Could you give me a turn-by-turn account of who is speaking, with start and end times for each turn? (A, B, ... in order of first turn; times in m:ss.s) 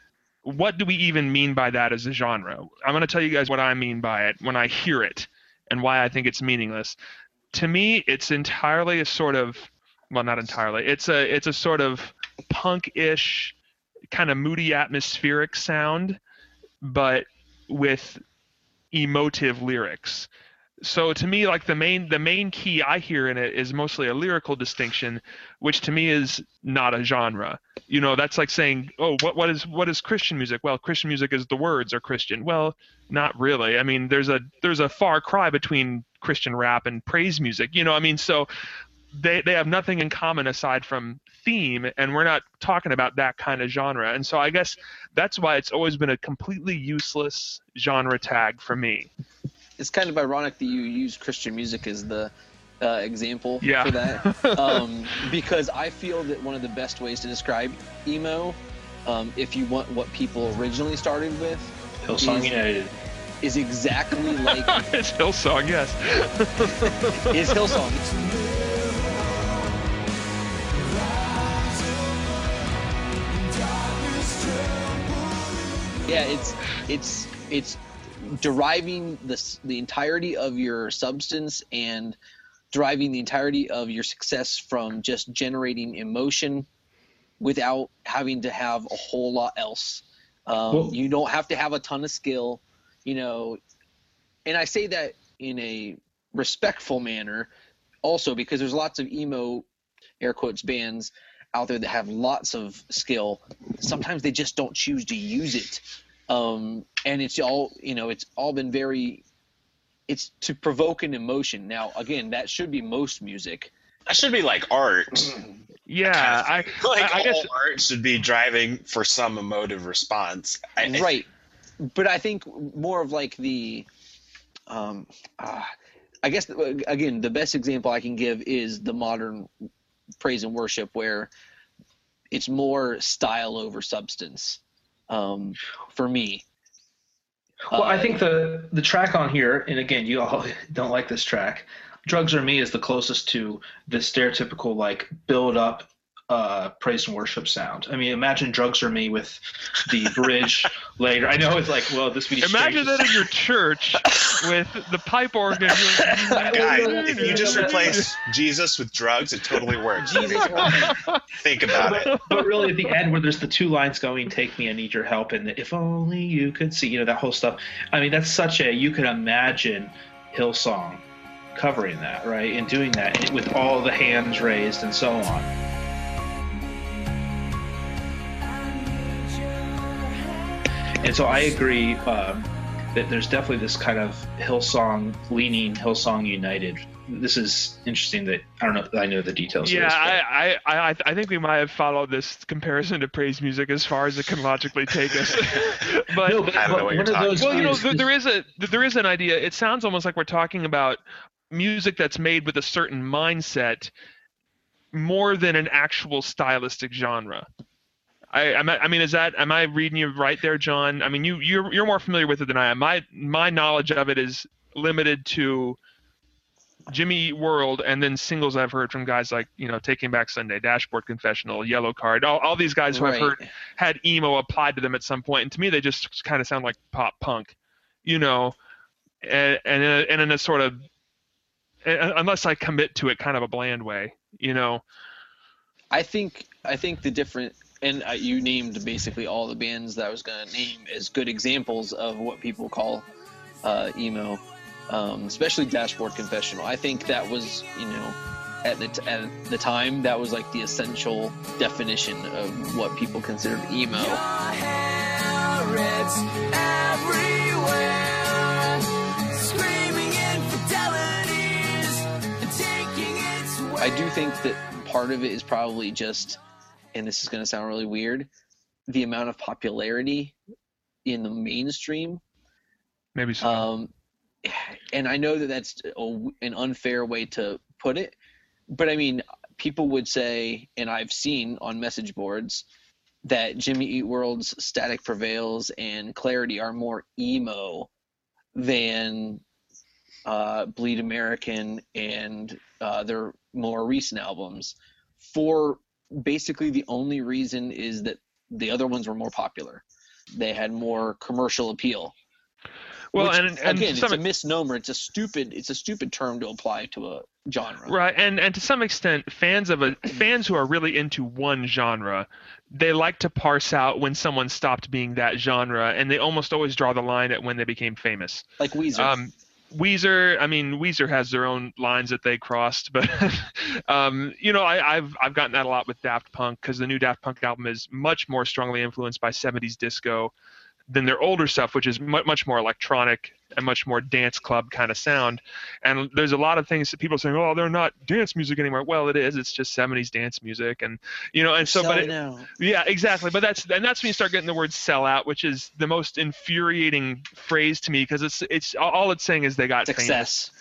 0:00.4-0:07.0 A
0:07.5-0:13.5 A
0:14.1-0:16.2 A
0:16.8-0:18.2 A
0:18.9-0:20.3 A
0:20.8-0:38.5 A
0:39.1-0:49.1 A
0:49.8-1:02.6 B
0:53.6-0:54.9 A
1:02.0-1:02.9 C
1:03.4-1:04.8 B
1:04.2-1:07.8 A
1:07.2-1:08.0 B
1:08.0-1:10.0 D
1:10.8-1:12.7 D
1:13.3-1:16.5 D
1:16.1-1:22.2 B
1:22.7-1:26.7 B
1:27.4-1:33.6 B
1:30.7-1:31.0 C
1:34.4-1:37.5 B
1:38.0-1:39.7 B
1:40.2-1:49.2 B
1:50.1-1:53.7 B
1:54.1-1:55.4 E
1:55.9-1:57.5 A
1:56.0-2:01.2 E
2:00.8-2:01.3 B
2:01.8-2:03.9 B
2:04.7-2:05.7 B
2:06.2-2:09.5 B
2:10.2-2:11.3 B
2:12.3-2:16.4 B
2:17.7-2:33.3 C
2:17.7-2:18.2 B
2:32.4-2:38.1 A
2:35.7-2:38.0 C
2:36.4-2:42.3 E
2:40.0-2:41.0 B
2:40.6-2:41.2 A
2:41.7-2:51.0 C
2:41.8-2:42.9 A
2:51.6-2:55.5 C
2:56.6-2:57.5 D
2:58.4-3:00.7 D
3:01.0-3:10.2 C
3:09.6-3:16.8 A
3:16.2-3:18.1 C
3:16.6-3:17.8 E
3:17.4-3:21.0 A
3:21.5-3:23.9 A
3:24.9-3:27.5 A
3:28.3-3:35.8 A
3:36.9-3:47.5 A
3:42.9-3:43.5 B
3:48.0-3:48.6 A
3:49.2-3:50.8 A
3:51.8-3:54.8 A
3:55.9-4:03.1 B
4:03.6-4:14.2 B
4:13.9-4:24.2 D
4:23.8-4:26.4 B
4:26.9-4:28.3 B
4:28.9-4:30.4 B
4:31.0-4:32.2 B
4:33.2-4:33.7 A
4:33.4-4:33.9 B
4:34.4-4:38.2 B
4:38.7-4:42.6 B
4:43.2-4:47.9 B
4:48.6-4:49.4 B
4:50.3-5:02.1 B
5:03.1-5:04.2 A
5:03.1-5:08.0 B
5:07.9-5:30.3 A
5:18.6-5:19.2 B
5:30.9-5:50.3 A
5:41.6-5:42.5 B
5:49.8-5:50.5 B